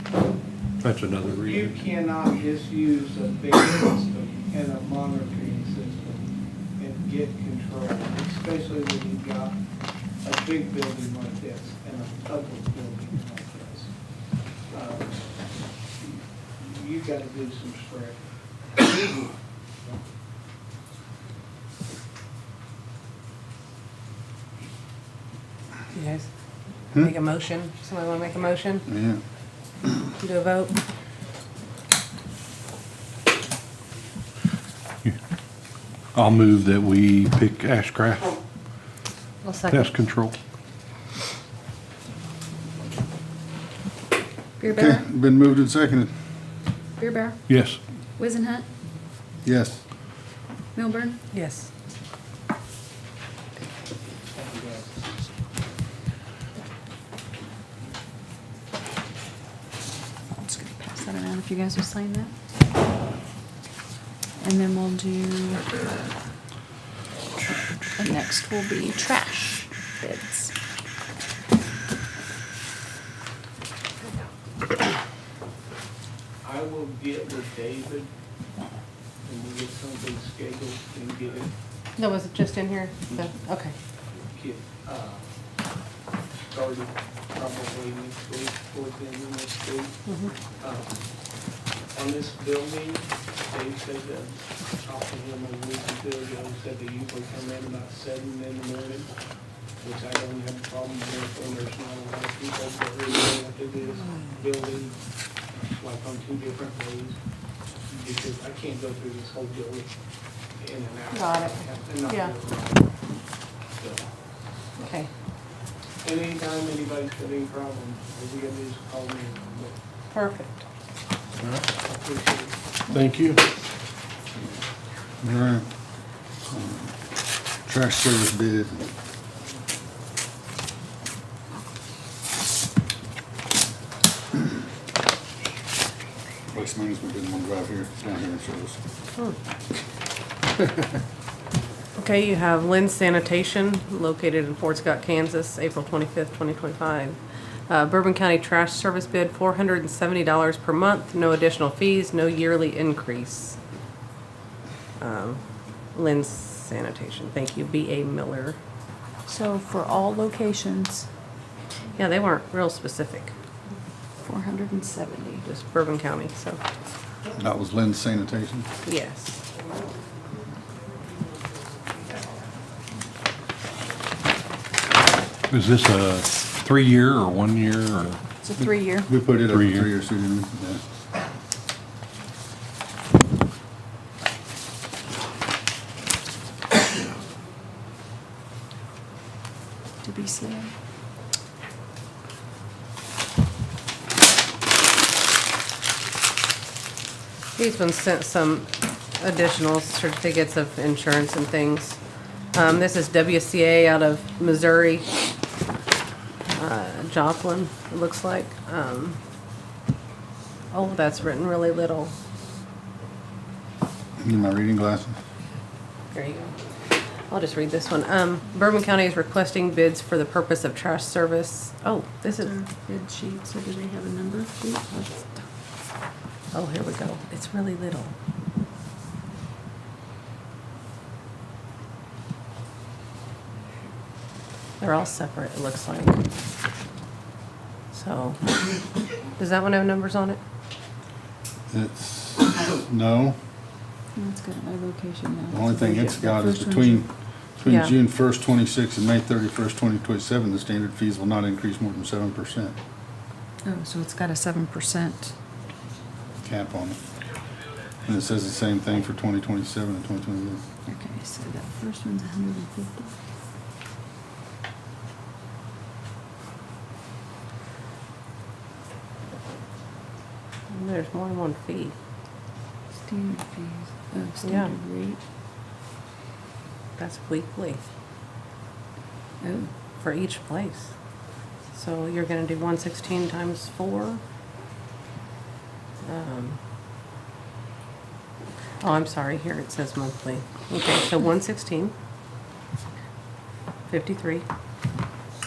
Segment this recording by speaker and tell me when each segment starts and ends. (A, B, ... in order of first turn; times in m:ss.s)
0:00.8-0:01.8 A
0:01.2-0:09.6 B
0:10.2-0:13.9 B
0:14.7-0:15.3 B
0:16.0-0:18.2 B
0:18.8-0:19.4 B
0:25.9-0:26.3 C
0:26.9-0:28.9 C
0:28.9-0:29.2 D
0:30.2-0:30.8 C
0:36.1-0:38.4 A
0:39.4-0:39.9 C
0:39.7-0:40.4 A
0:44.6-0:45.0 E
0:44.7-0:46.1 D
0:47.0-0:47.5 E
0:47.5-0:47.8 A
0:48.2-0:48.7 E
0:49.4-0:49.8 D
0:50.8-0:51.2 E
0:51.3-0:51.7 C
0:54.3-0:55.0 B
1:00.4-1:02.3 E
1:04.4-1:05.7 E
1:08.0-1:10.5 E
1:16.4-1:18.1 B
1:19.2-1:21.5 B
1:22.0-1:23.7 C
1:24.3-1:25.3 B
1:26.5-1:30.0 B
1:30.1-1:30.3 C
1:30.6-1:31.0 B
1:31.9-1:39.1 B
1:39.8-1:45.0 B
1:45.5-1:47.2 B
1:47.9-1:49.9 B
1:50.6-1:52.9 B
1:51.1-1:52.3 C
1:53.8-1:54.1 B
1:54.8-1:55.1 C
1:56.0-1:59.8 B
2:00.1-2:00.6 C
2:01.8-2:02.6 B
2:02.9-2:03.4 A
2:05.2-2:05.7 D
2:06.5-2:06.9 D
2:07.6-2:08.9 D
2:16.5-2:18.8 D
2:22.0-2:27.2 C
2:27.7-2:33.6 C
2:35.0-2:35.4 C
2:35.9-2:38.6 C
2:39.3-2:41.1 E
2:42.0-2:43.4 C
2:44.2-2:45.4 E
2:45.4-2:46.6 C
2:47.4-2:48.7 D
2:48.8-2:49.4 C
2:55.5-2:58.2 A
2:58.4-2:59.1 E
2:58.6-3:00.8 D
2:59.4-2:59.9 A
3:10.0-3:10.7 E
3:17.6-3:22.0 C
3:22.5-3:25.1 C
3:26.6-3:29.2 C
3:30.7-3:32.1 C
3:34.2-3:35.2 D
3:36.1-3:36.6 C
3:37.3-3:42.6 C
3:42.3-3:45.4 E
3:46.5-3:48.1 C
3:54.8-3:56.2 C
3:57.9-3:58.8 C
3:59.4-4:00.4 C
4:01.7-4:03.4 D
4:04.2-4:07.0 E
4:05.5-4:12.8 D
4:07.6-4:08.0 C
4:13.6-4:15.3 E
4:16.4-4:17.0 D
4:18.0-4:20.6 D
4:20.9-4:23.1 E
4:30.7-4:32.0 C
4:33.0-4:35.2 E
4:34.4-4:34.7 C
4:37.0-4:37.8 C
4:39.4-4:39.7 E
4:40.0-4:40.9 C
4:41.7-4:44.2 C
4:46.0-4:46.6 C
4:48.8-4:51.9 C
4:53.9-4:54.5 C